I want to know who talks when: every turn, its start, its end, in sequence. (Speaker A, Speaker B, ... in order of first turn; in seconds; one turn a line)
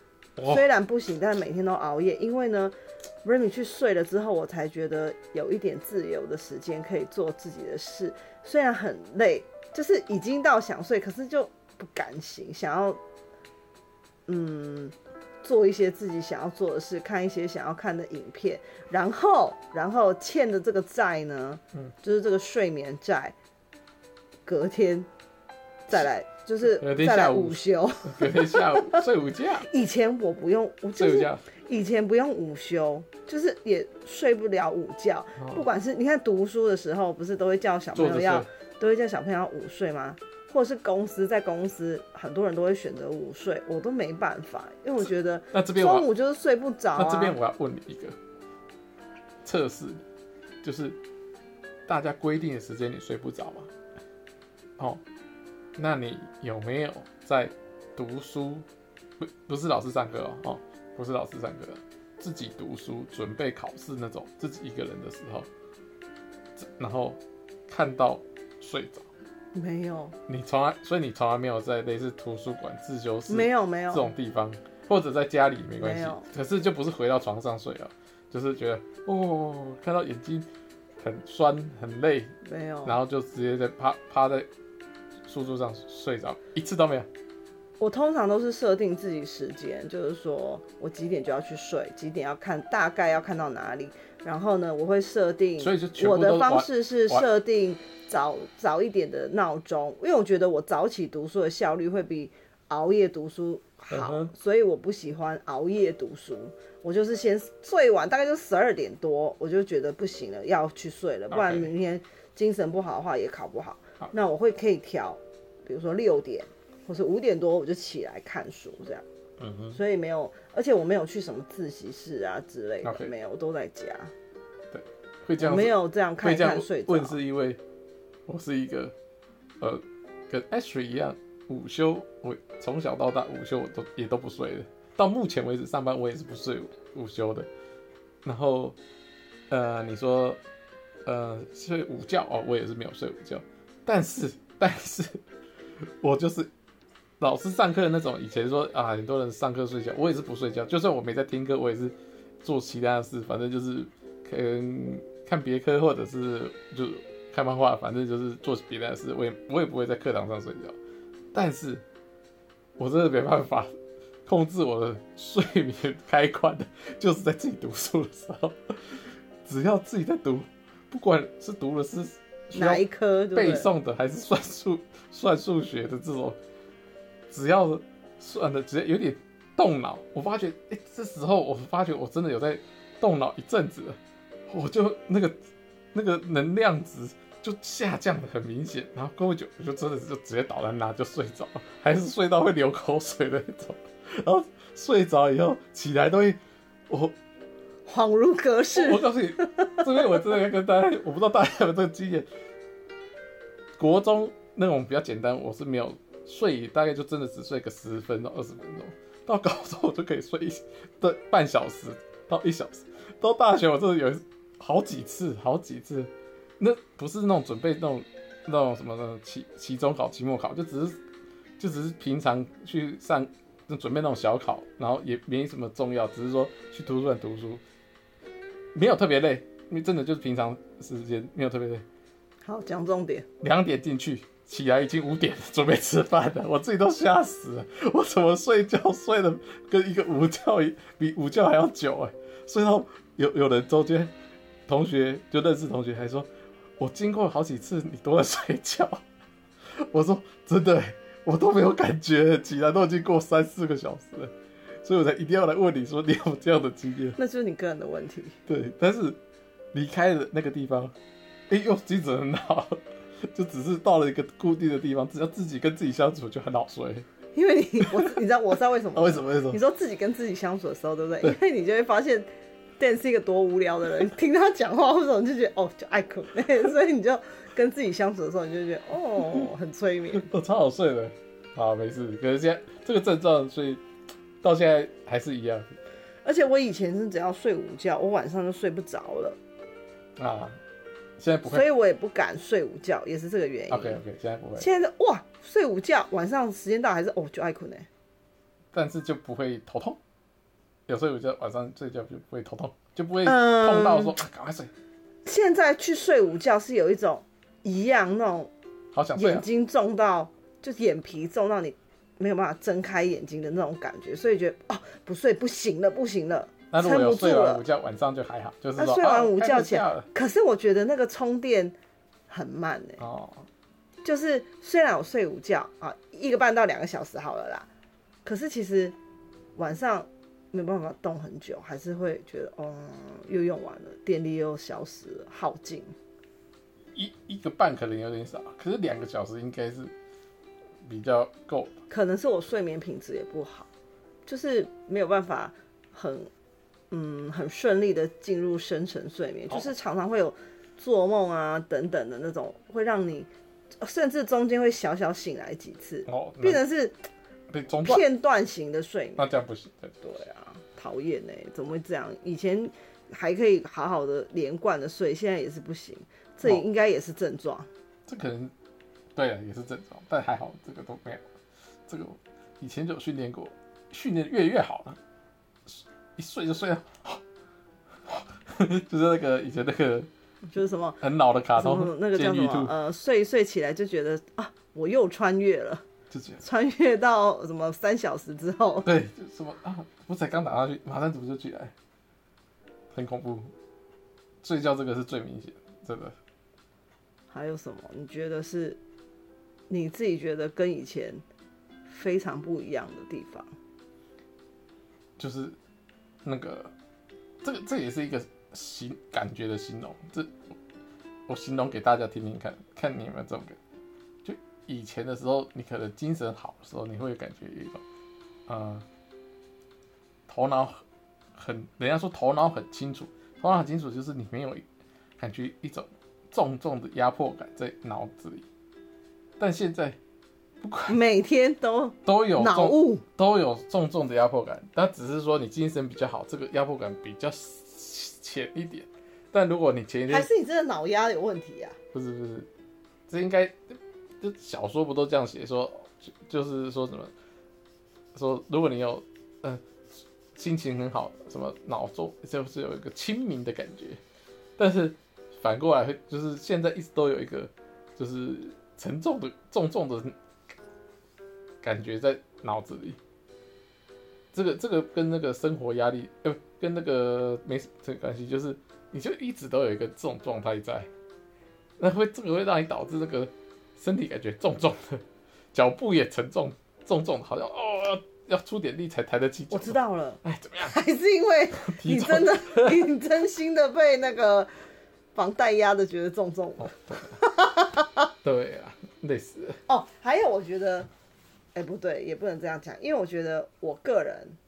Speaker A: 0.4-0.7
Speaker B: 0.5-13.0
Speaker B: 14.3-23.4
Speaker B: 24.5-25.1
Speaker B: 25.9-29.1
Speaker A: 26.6-29.7
Speaker B: 29.6-47.4
Speaker A: 31.0-31.4
Speaker A: 35.4-35.6
Speaker A: 37.9-38.5
Speaker A: 45.5-46.1
Speaker A: 47.0-48.2
Speaker A: 49.4-50.0
Speaker A: 50.6-51.0
Speaker A: 51.9-53.7
Speaker A: 55.8-58.7
Speaker A: 59.2-65.5
Speaker A: 66.6-69.1
Speaker B: 69.5-70.2
Speaker A: 70.3-80.5
Speaker B: 73.3-74.1
Speaker B: 75.8-76.3
Speaker A: 81.0-82.3
Speaker B: 82.4-83.0
Speaker A: 82.8-84.5
Speaker A: 85.3-87.1
Speaker B: 87.8-119.0
Speaker A: 95.6-97.3
Speaker A: 103.9-104.3
Speaker A: 111.3-111.7
Speaker A: 119.4-119.8
Speaker B: 119.7-124.1
Speaker A: 122.8-123.1
Speaker A: 124.7-127.6
Speaker B: 125.4-127.2
Speaker A: 128.3-128.9
Speaker A: 129.6-137.5
Speaker A: 138.2-138.8
Speaker A: 139.5-140.4
Speaker A: 141.1-145.2
Speaker A: 145.8-146.5
Speaker A: 147.2-160.8
Speaker A: 161.3-161.8
Speaker A: 162.8-163.7
Speaker A: 164.3-172.8
Speaker B: 172.5-173.7
Speaker A: 173.3-176.4
Speaker A: 177.3-185.4
Speaker A: 185.9-197.2
Speaker B: 197.9-200.2
Speaker A: 198.8-202.3
Speaker A: 203.8-221.0
Speaker A: 221.6-227.6
Speaker A: 228.7-231.8
Speaker B: 232.4-233.3
Speaker A: 233.4-244.1
Speaker A: 244.7-246.3
Speaker A: 246.8-249.0
Speaker A: 249.7-257.2
Speaker B: 257.2-258.4
Speaker A: 258.5-259.2
Speaker A: 259.7-260.9
Speaker A: 261.5-267.1
Speaker B: 267.4-280.3
Speaker A: 267.8-268.2
Speaker A: 268.9-269.6
Speaker A: 279.2-279.5
Speaker A: 280.1-283.8
Speaker A: 284.4-285.7
Speaker B: 286.2-289.4
Speaker A: 290.2-290.6
Speaker A: 291.2-291.7
Speaker B: 291.5-294.0
Speaker A: 293.7-294.7
Speaker B: 294.6-297.9
Speaker A: 298.7-300.0
Speaker A: 300.9-304.7
Speaker B: 303.2-304.2
Speaker B: 305.2-308.5
Speaker A: 308.9-309.5
Speaker B: 309.2-317.6
Speaker A: 316.7-320.1
Speaker B: 318.8-321.8
Speaker B: 322.3-323.0
Speaker A: 323.0-323.5
Speaker B: 324.1-327.7
Speaker B: 328.2-328.9
Speaker B: 329.6-335.9
Speaker A: 336.9-339.9
Speaker A: 340.9-341.8
Speaker B: 341.9-343.7
Speaker B: 344.3-346.3
Speaker B: 346.9-353.3
Speaker B: 353.8-357.0
Speaker A: 356.1-356.6
Speaker A: 357.5-358.1
Speaker B: 357.8-359.3
Speaker A: 359.2-360.0
Speaker B: 360.0-367.7
Speaker A: 368.1-368.5
Speaker A: 369.1-371.2
Speaker A: 371.9-375.0
Speaker A: 375.7-377.2
Speaker A: 378.1-380.1
Speaker B: 380.5-381.0
Speaker A: 381.0-382.7
Speaker B: 381.6-385.9
Speaker A: 386.1-386.4
Speaker B: 386.4-388.9
Speaker A: 388.9-391.7
Speaker A: 392.9-393.5
Speaker A: 394.4-396.2
Speaker B: 397.3-398.8
Speaker B: 399.7-401.2
Speaker B: 401.9-403.5
Speaker A: 405.2-405.6
Speaker A: 406.2-406.7
Speaker A: 407.4-410.4
Speaker A: 411.3-413.6
Speaker A: 414.2-417.8
Speaker A: 418.5-418.9
Speaker A: 420.3-420.8
Speaker A: 421.4-424.6
Speaker A: 425.2-428.5
Speaker A: 429.4-430.0
Speaker A: 430.6-431.0
Speaker B: 430.9-433.1
Speaker A: 432.1-440.3
Speaker B: 440.1-441.8
Speaker A: 441.9-442.5
Speaker A: 443.1-447.1
Speaker A: 448.1-449.6
Speaker A: 450.4-454.0
Speaker A: 454.6-460.2
Speaker A: 461.6-463.0
Speaker A: 464.3-470.9
Speaker A: 471.8-480.8
Speaker B: 479.5-484.5
Speaker A: 481.6-482.9
Speaker B: 485.1-488.1
Speaker A: 486.6-487.2
Speaker A: 488.2-489.6
Speaker B: 489.7-490.9
Speaker B: 491.6-494.4